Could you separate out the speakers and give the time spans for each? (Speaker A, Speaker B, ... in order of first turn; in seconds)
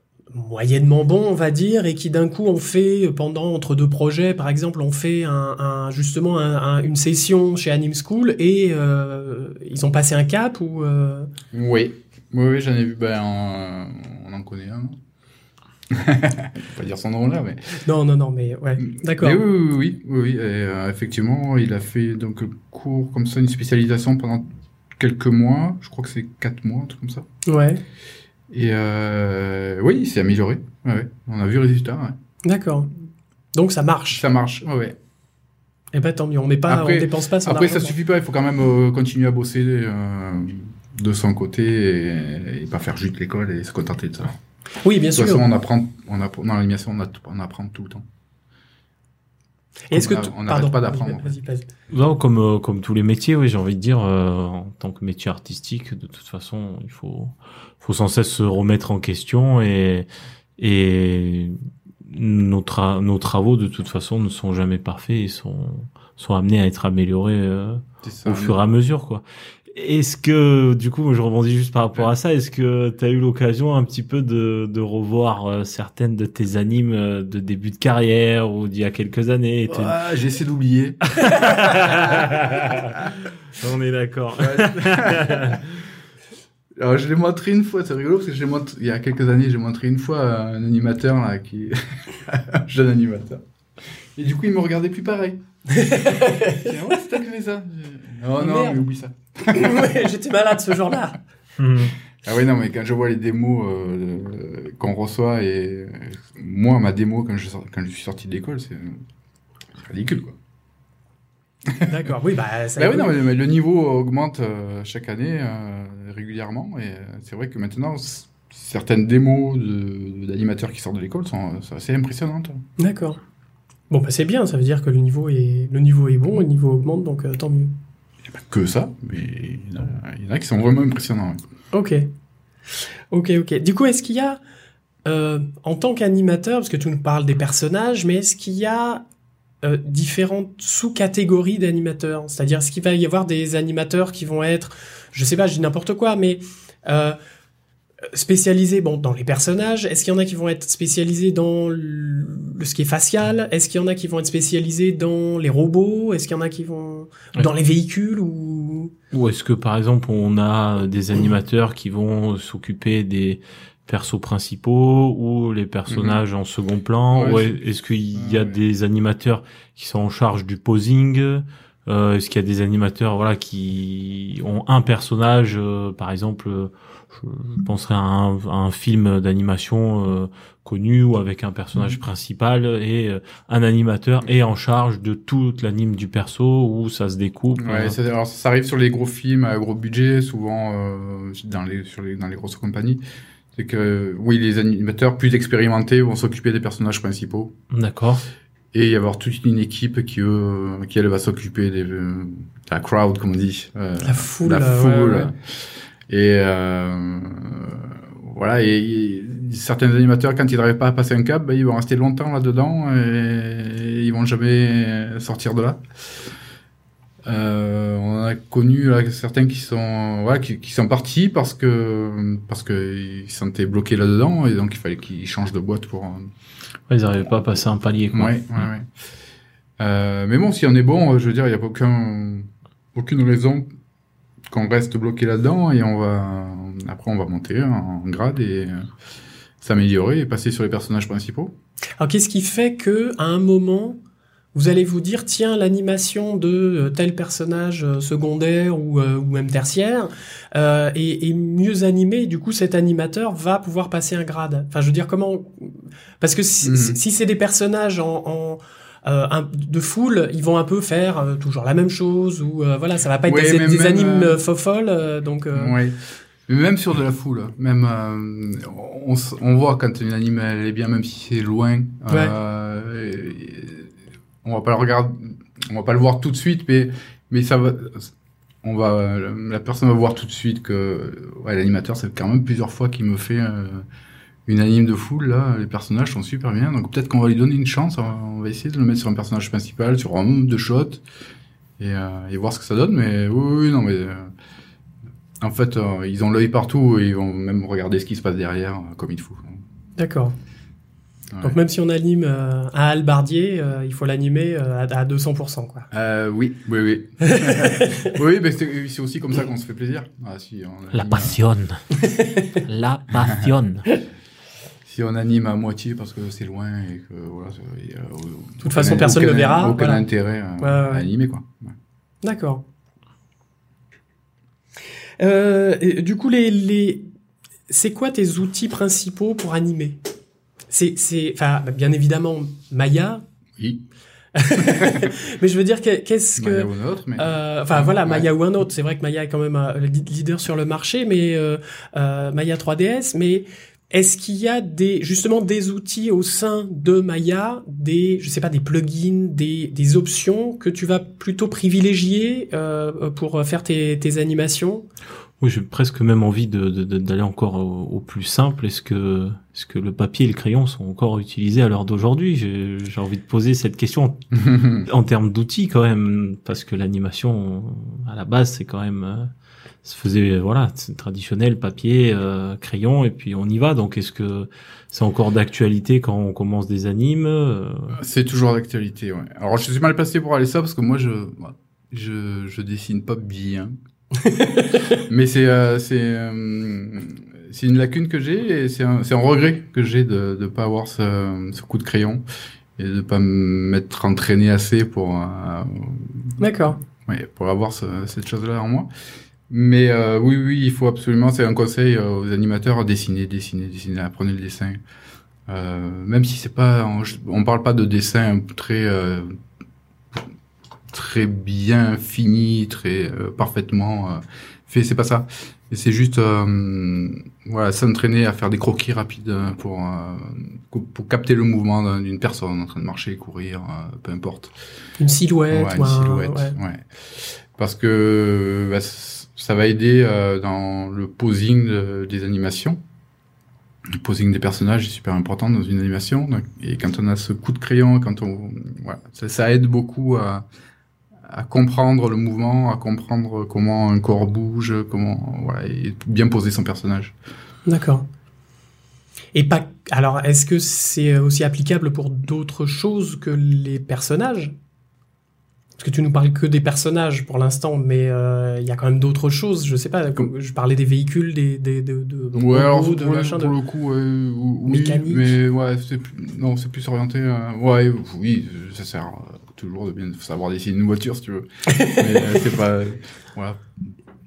Speaker A: 0.3-11.3, 17.8-19.4, 27.4-27.8, 32.4-32.9, 33.5-34.2, 35.9-38.0, 44.8-45.5, 49.9-51.7, 95.7-96.7, 98.4-98.8, 99.5-101.2, 111.8-113.2, 122.8-123.2, 123.9-127.7, 131.7-132.1, 133.1-134.4, 135.1-139.0, 139.6-147.2, 148.1-158.9, 204.0-205.3, 242.0-244.0, 244.5-265.8, 272.1-272.3, 300.0-300.4, 301.4-305.9, 307.3-308.1, 311.9-312.6, 318.6-320.0, 320.6-321.1, 322.2-322.6, 325.2-327.1, 327.7-330.0, 330.7-333.2, 334.3-354.9, 384.2-385.0, 396.4-396.8, 425.0-426.6, 447.6-448.1, 449.3-454.6, 455.8-463.5, 464.6-465.3, 471.7-472.4
Speaker B: 11.5-15.0, 15.9-17.8, 18.8-27.2, 28.5-32.1, 34.1-35.0, 36.7-44.4, 45.1-48.0, 49.9-51.4, 68.0-68.6, 79.7-82.2, 84.4-85.8, 86.8-93.4, 94.1-95.4, 95.9-100.0, 102.2-109.0, 109.8-110.4, 111.7-111.9, 112.8-122.6, 128.3-131.4, 165.9-166.2, 167.1-167.6, 168.1-168.6, 187.6-193.0, 193.5-197.5, 198.7-216.2, 217.2-226.3, 228.1-228.9, 229.8-233.7, 234.5-238.9, 239.6-241.5, 256.6-257.0, 263.2-264.4, 265.5-273.9, 274.4-283.8, 284.4-291.0, 291.8-294.3, 295.4-299.6, 301.3-301.6, 305.9-311.4, 314.8-321.7, 333.6-333.8, 334.5-335.1, 336.4-338.3, 364.4-364.9, 377.9-383.8, 384.9-392.2, 392.8-396.4, 396.9-398.9, 399.5-404.8, 405.5-409.4, 410.9-424.5, 425.5-432.8, 433.9-440.4, 441.2-447.1, 462.3-473.6
Speaker C: 51.9-60.1, 60.6-80.0, 81.2-85.7, 101.6-101.9, 159.1-187.9, 197.7-198.2, 226.9-228.7, 310.9-311.8, 312.6-313.9, 355.4-369.3, 369.8-378.0